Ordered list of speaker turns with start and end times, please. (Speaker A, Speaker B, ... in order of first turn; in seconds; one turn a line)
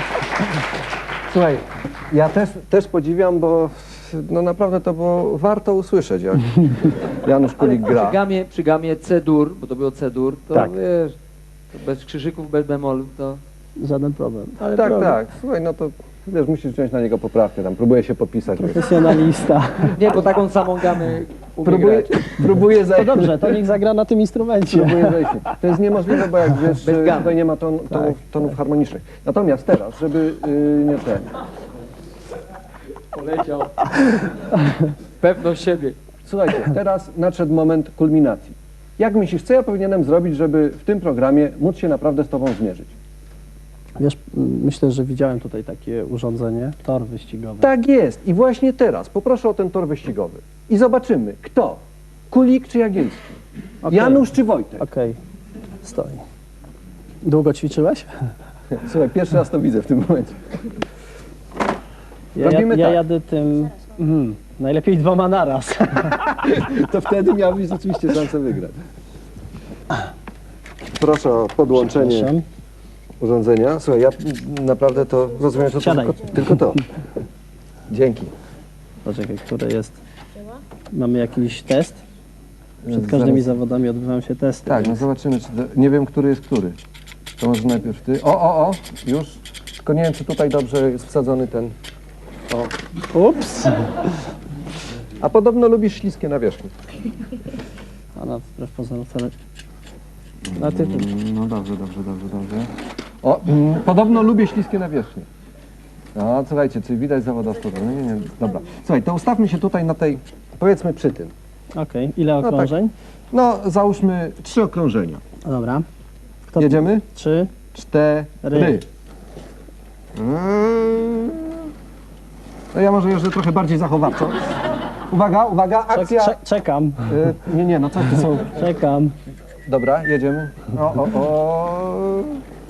Speaker A: 1.3-8.2
Speaker B: 7.6-11.2
Speaker B: 11.7-13.4
Speaker C: 13.8-15.2
Speaker A: 14.7-19.2
Speaker C: 18.6-20.1
Speaker B: 19.9-22.2
Speaker A: 21.6-23.6
Speaker C: 22.9-26.6
Speaker A: 24.7-31.3
Speaker B: 26.8-27.3
Speaker B: 33.1-34.3
Speaker B: 35.2-36.0
Speaker A: 36.2-42.9
Speaker C: 44.0-47.7
Speaker A: 47.6-53.2
Speaker C: 53.8-55.2
Speaker A: 53.9-54.8
Speaker C: 55.8-56.2
Speaker C: 57.2-58.3
Speaker A: 58.7-60.4
Speaker C: 62.3-66.3
Speaker A: 62.4-63.0
Speaker A: 66.3-68.8
Speaker A: 70.9-72.3
Speaker C: 71.7-72.5
Speaker A: 73.2-76.8
Speaker C: 75.8-76.3
Speaker A: 77.9-78.3
Speaker C: 79.0-80.0
Speaker C: 80.9-82.0
Speaker A: 82.8-83.5
Speaker C: 82.9-85.0
Speaker A: 84.7-86.7
Speaker A: 87.4-91.7
Speaker C: 93.1-94.0
Speaker A: 95.2-96.7
Speaker C: 98.2-99.3
Speaker A: 100.5-102.7
Speaker C: 100.5-101.1
Speaker A: 103.2-105.3
Speaker A: 106.1-111.3
Speaker C: 111.7-112.9
Speaker A: 112.4-112.7
Speaker A: 113.3-115.2
Speaker C: 115.4-115.8
Speaker C: 116.5-117.5
Speaker A: 116.6-117.0
Speaker A: 117.7-118.8
Speaker C: 118.4-118.8
Speaker A: 120.1-121.7
Speaker A: 122.7-126.4
Speaker C: 125.9-127.3
Speaker A: 127.0-128.6
Speaker C: 128.5-129.1
Speaker A: 129.7-132.4